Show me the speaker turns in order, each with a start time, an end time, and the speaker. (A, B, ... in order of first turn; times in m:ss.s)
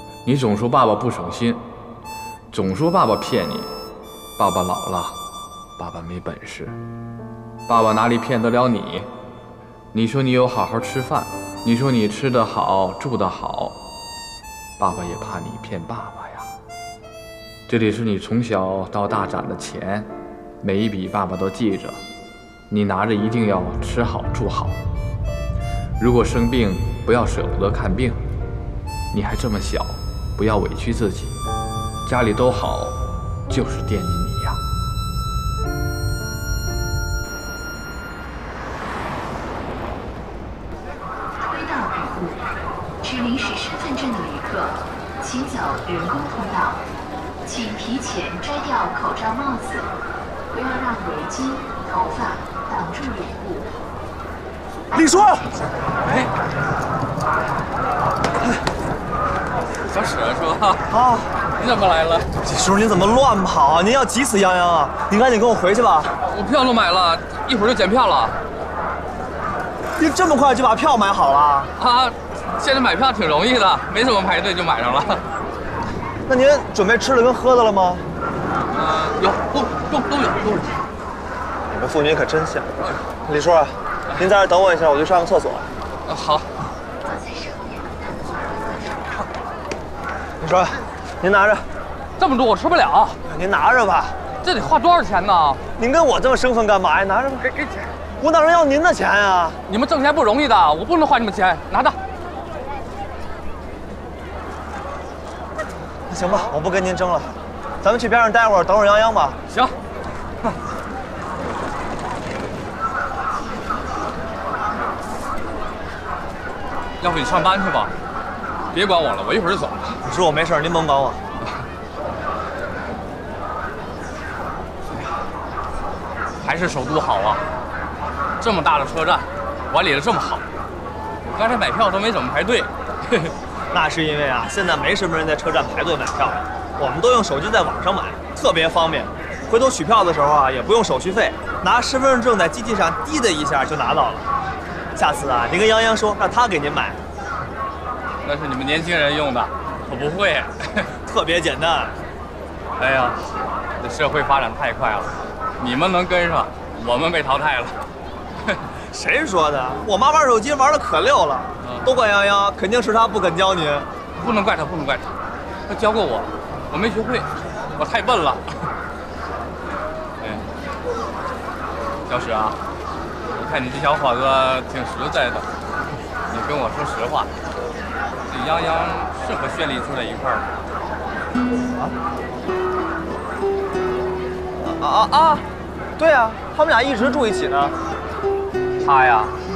0:00.2-0:01.6 A
0:02.5-0:03.7 A
0:04.4-0:05.2 A
0:05.8-0:06.8 A
0:07.7-0:09.1 A
0:09.9-0:13.8 A
0:14.8-0:16.5 A
0:17.7-0:20.1 A
0:20.6-0:22.0 A
0:22.7-0:24.8 A
0:26.0-0:28.2 A
0:29.1-0:31.4 A
0:32.0-0:34.6 A
0:41.4-0:42.5 B
0:43.0-0:46.8 B
0:47.4-0:49.9 B
0:50.5-0:53.7 B
0:54.9-0:55.5 C
0:59.9-1:00.8 D
1:00.9-1:01.3 C
1:01.6-1:02.3 D
1:02.4-1:06.1 C
1:06.2-1:08.4 D
1:10.0-1:11.7 C
1:11.8-1:15.2 D
1:16.3-1:18.1 C
1:18.7-1:20.7 D
1:21.7-1:22.7 C
1:23.2-1:25.7 C
1:26.1-1:26.5 D
1:27.1-1:29.0 B
1:30.4-1:31.6 C
1:32.2-1:33.2 D
1:33.3-1:34.2 C
1:34.4-1:35.6 D
1:35.8-1:39.6 C
1:39.7-1:42.0 D
1:46.1-1:49.4 C
1:49.5-1:49.7 D
1:53.3-1:54.6 B
1:57.0-1:57.9 D
1:58.7-2:00.0 D
2:00.0-2:01.2 C
2:06.4-2:07.4 D
2:08.4-2:10.4 D
2:11.3-2:13.3 D
2:13.7-2:24.2 C
2:25.0-2:27.0 C
2:28.2-2:30.9 D
2:31.0-2:32.0 C
2:32.8-2:33.2 D
2:33.8-2:37.8 D
2:38.9-2:43.9 C
2:41.6-2:41.9 D
2:44.2-2:45.1 D
2:45.7-2:48.7 D
2:50.2-2:50.4 D
2:52.1-2:52.6 D
2:53.3-2:55.5 D
2:56.3-2:57.3 D
2:58.3-3:00.4 D
3:04.6-3:05.4 C
3:06.0-3:07.8 C
3:08.8-3:09.3 D